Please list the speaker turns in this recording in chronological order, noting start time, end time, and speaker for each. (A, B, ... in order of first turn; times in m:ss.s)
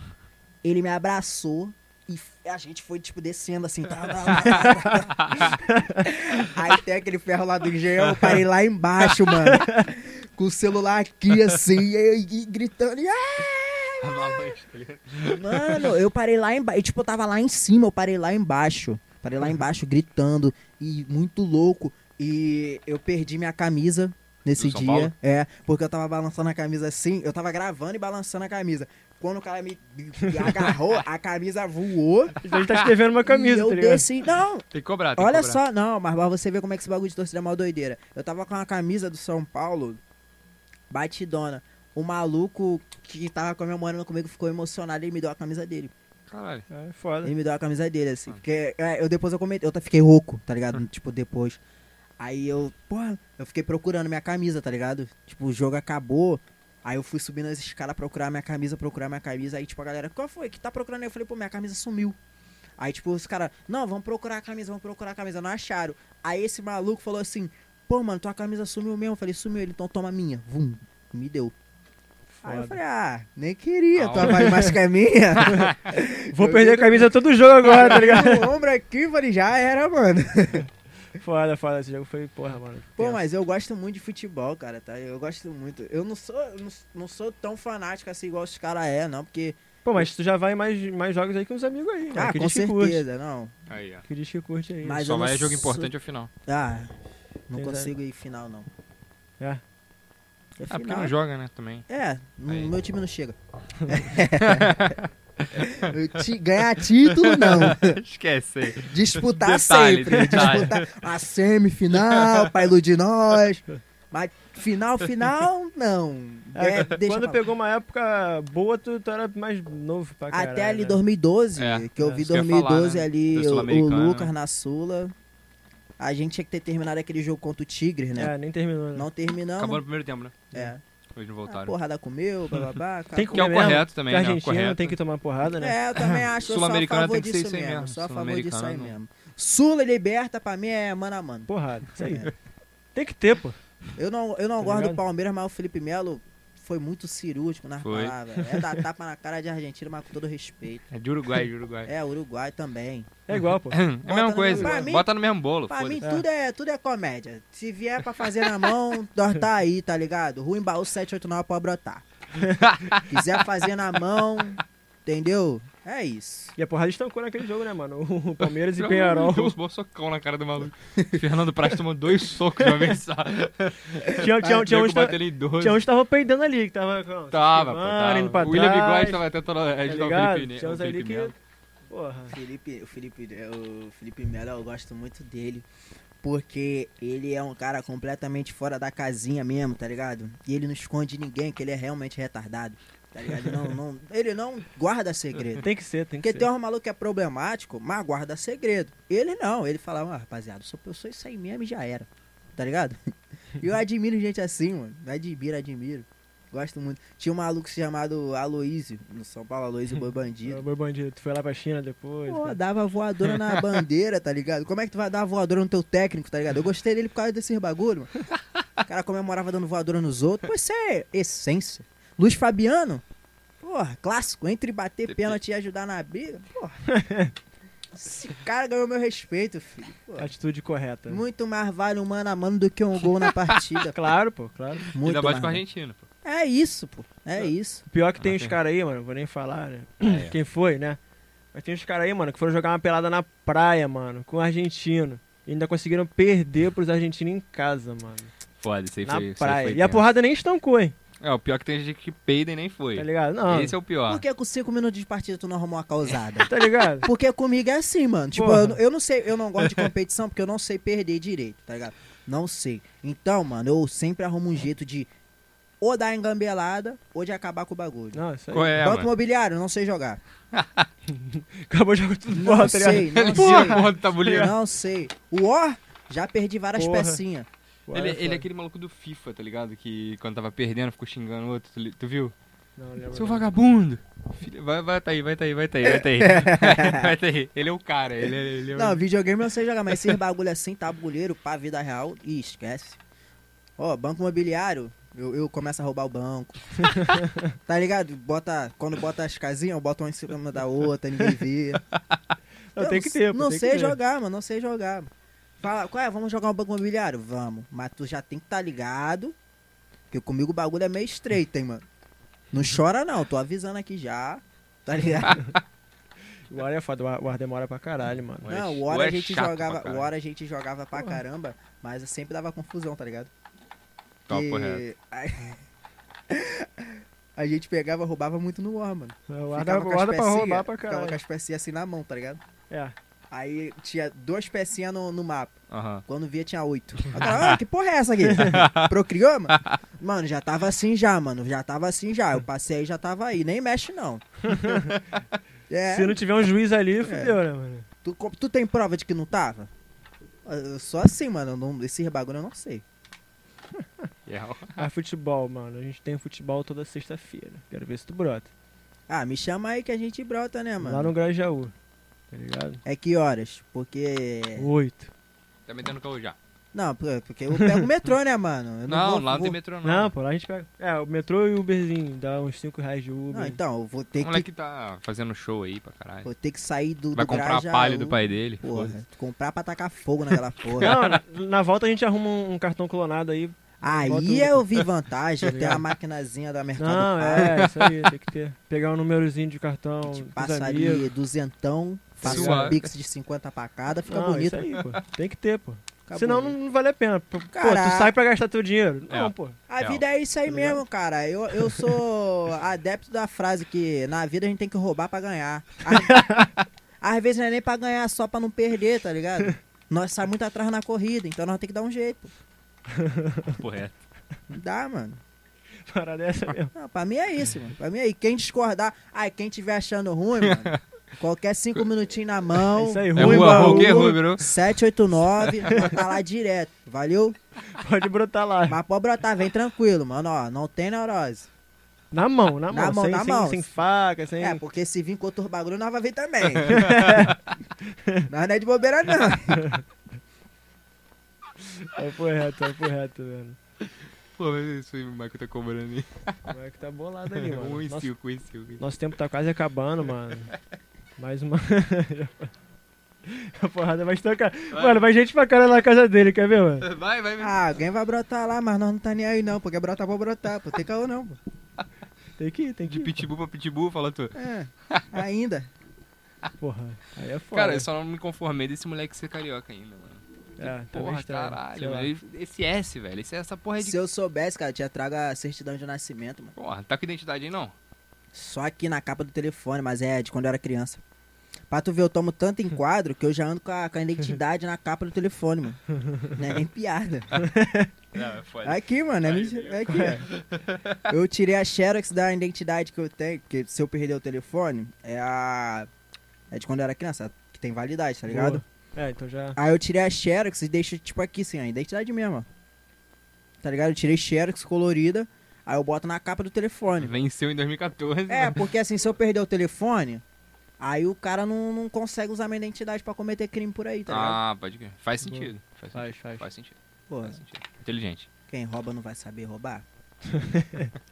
0:00.6-0:14.5 A
0:05.1-0:05.6 B
0:05.7-0:06.0 C
0:09.3-0:09.8 C
0:14.0-0:15.9 B
0:15.2-0:32.4 A
0:24.6-0:25.1 B
0:32.4-0:34.1 C
0:32.5-0:32.9 B
0:33.2-0:40.0 A
0:34.7-0:35.6 B
0:40.9-0:45.9 A
0:46.3-0:46.7 B
0:46.7-0:47.3 C
0:47.2-0:51.6 A
0:52.2-1:02.2 A
1:02.8-1:11.5 A
1:12.4-1:20.7 A
1:12.4-1:12.8 C
1:14.0-1:14.7 B
1:15.4-1:15.8 B
1:16.3-1:18.5 C
1:21.2-1:23.2 C
1:23.0-1:29.6 A
1:29.8-1:33.0 C
1:32.1-1:33.5 A
1:33.7-1:34.0 B
1:34.1-1:35.1 C
1:34.8-1:35.9 A
1:35.0-1:36.3 B
1:36.4-1:36.9 A
1:37.5-1:38.7 A
1:37.6-1:37.9 C
1:40.6-1:41.1 A
1:40.7-1:41.9 B
1:41.9-1:45.0 A
1:44.4-1:45.9 B
1:45.5-1:48.0 A
1:47.0-1:51.0 B
1:48.7-1:57.4 A
1:52.0-1:52.7 B
1:56.6-2:01.0 C
2:00.3-2:05.1 A
2:01.6-2:04.3 B
2:06.0-2:08.3 A
2:08.2-2:09.1 C
2:09.0-2:09.8 A
2:09.6-2:10.4 B
2:10.5-2:10.8 A
2:11.2-2:11.8 B
2:11.5-2:13.7 A
2:13.1-2:15.8 C
2:13.3-2:15.0 B
2:15.6-2:21.5 A
2:16.0-2:19.0 B
2:21.5-2:22.3 C
2:22.1-2:22.3 A
2:23.0-2:23.6 C
2:24.0-2:30.9 A
2:24.6-2:25.0 C
2:27.8-2:28.2 B
2:28.4-2:28.7 C
2:30.9-2:31.9 B
2:31.9-2:33.2 A
2:33.3-2:33.8 C
2:33.3-2:36.0 B
2:34.0-2:35.1 A
2:34.5-2:34.9 C
2:35.7-2:42.0 A
2:42.5-2:43.4 B
2:43.1-2:46.6 A
2:46.6-2:49.6 C
2:48.8-2:55.8 B
2:52.7-2:52.9 C
2:54.1-2:59.2 C
2:57.3-3:01.4 B
2:59.9-3:01.4 C
3:01.9-3:02.4 C
3:02.3-3:05.7 A
3:06.2-3:15.7 A
3:15.6-3:16.5 C
3:16.2-3:23.0 A
3:23.6-3:30.6 A
3:30.5-3:32.6 C
3:32.3-3:38.1 A
3:38.9-3:43.0 A
3:43.6-3:46.8 A
3:45.1-3:45.4 B
3:46.9-3:47.3 C
3:47.9-3:50.3 A
3:50.2-3:51.2 C
3:51.1-3:54.0 A
3:53.9-3:54.9 C
3:54.9-3:55.6 A
3:55.0-3:56.0 B
3:56.2-3:57.8 A
3:57.9-4:01.0 C
3:58.2-3:58.6 B
4:00.0-4:00.4 B
4:01.5-4:08.3 C
4:08.6-4:10.0 B
4:09.0-4:11.0 C
4:11.2-4:14.2 B
4:13.0-4:13.8 C
4:14.1-4:25.1 A
4:16.4-4:17.1 C
4:18.4-4:18.8 C
4:19.6-4:19.9 B
4:25.8-4:28.2 A
4:28.1-4:28.8 C
4:28.5-4:29.1 B
4:28.8-4:30.2 A
4:30.5-4:30.9 B
4:31.1-4:34.5 C
4:32.3-4:37.5 A
4:33.0-4:34.5 B
4:36.8-4:37.2 C
4:37.9-4:38.4 C
4:37.9-4:42.3 B
4:42.8-4:43.5 C
4:43.1-4:49.0 B
4:45.8-4:47.1 A
4:48.8-4:53.0 A
4:53.8-4:57.1 A
4:56.9-4:57.3 C
4:57.7-5:01.8 A
5:02.7-5:04.0 C
5:02.8-5:05.1 A
5:05.6-5:09.4 A
5:10.1-5:11.9 A
5:12.5-5:15.4 A
5:16.5-5:18.8 C
5:18.4-5:23.3 A
5:18.6-5:20.1 B
5:24.3-5:24.8 B
5:24.3-5:25.6 A
5:26.3-5:32.4 A
5:29.3-5:31.2 C
5:32.7-5:33.0 C
5:33.3-5:35.6 A
5:35.7-5:36.0 B
5:36.1-5:44.2 A
5:37.1-5:37.6 B
5:38.2-5:38.6 C
5:38.4-5:38.9 B
5:39.5-5:39.8 B
5:44.5-5:44.9 C
5:44.7-5:45.0 B
5:45.7-5:46.2 A
5:45.9-5:47.9 C
5:47.0-5:47.4 A
5:48.0-5:49.7 A
5:50.4-5:52.8 A
5:54.3-5:54.8 B
5:54.8-5:58.5 C
5:59.1-6:01.1 A
6:00.8-6:01.7 C
6:02.3-6:02.8 C
6:02.8-6:04.7 A
6:04.6-6:05.1 C
6:05.7-6:06.4 B
6:06.7-6:09.6 A
6:07.6-6:07.8 C
6:08.9-6:10.1 B
6:09.8-6:13.6 C
6:13.3-6:14.5 A
6:14.2-6:16.3 B
6:16.2-6:21.0 A
6:17.1-6:19.0 B
6:20.8-6:24.8 C
6:23.8-6:27.7 A
6:25.4-6:25.8 C
6:26.8-6:31.1 C
6:30.1-6:34.7 A
6:32.2-6:32.7 C
6:32.2-6:32.9 B
6:34.1-6:39.6 C
6:36.1-6:36.6 A
6:37.5-6:38.1 A
6:39.1-6:40.0 B
6:39.7-6:46.2 A
6:40.5-6:40.8 C
6:46.0-6:46.5 C
6:47.0-6:52.3 A
6:52.9-6:53.6 C
6:53.5-6:54.0 B
6:54.5-6:55.2 A
6:55.9-6:56.7 C
6:56.8-7:07.4 A
7:00.4-7:00.8 B
7:02.7-7:04.2 C
7:03.2-7:04.5 B
7:05.6-7:06.0 C
7:07.7-7:08.8 C
7:08.7-7:11.5 A
7:12.1-7:14.6 C
7:12.7-7:13.6 A
7:14.4-7:17.2 A
7:16.7-7:17.4 B
7:16.7-7:17.4 C
7:18.3-7:19.8 A
7:19.5-7:19.8 C
7:21.6-7:23.6 C
7:24.4-7:26.4 B
7:26.5-7:28.1 C
7:27.3-7:28.8 B
7:28.8-7:30.5 C
7:31.2-7:32.5 C
7:33.2-7:36.9 C
7:34.7-7:35.0 B
7:36.8-7:37.6 B
7:37.4-7:41.4 A
7:42.4-7:43.3 C
7:42.9-7:45.1 B
7:44.4-7:45.7 A
7:46.6-7:47.9 C
7:47.5-7:54.0 B
7:50.6-7:52.1 C
7:53.8-7:56.6 A
7:56.6-7:57.8 B
7:58.3-8:01.0 A
8:01.7-8:05.8 A
8:06.3-8:07.3 A
8:07.4-8:07.9 C
8:08.1-8:11.1 B
8:08.6-8:10.3 A
8:09.9-8:10.2 C
8:11.1-8:15.9 A
8:16.5-8:18.6 A
8:18.3-8:19.6 C
8:19.6-8:22.5 A
8:23.6-8:27.2 A
8:27.0-8:28.7 B
8:28.3-8:30.2 A
8:30.8-8:34.4 A
8:34.1-8:38.3 B
8:35.2-8:36.5 C
8:37.1-8:37.4 A
8:38.5-8:39.8 A
8:40.3-8:40.9 C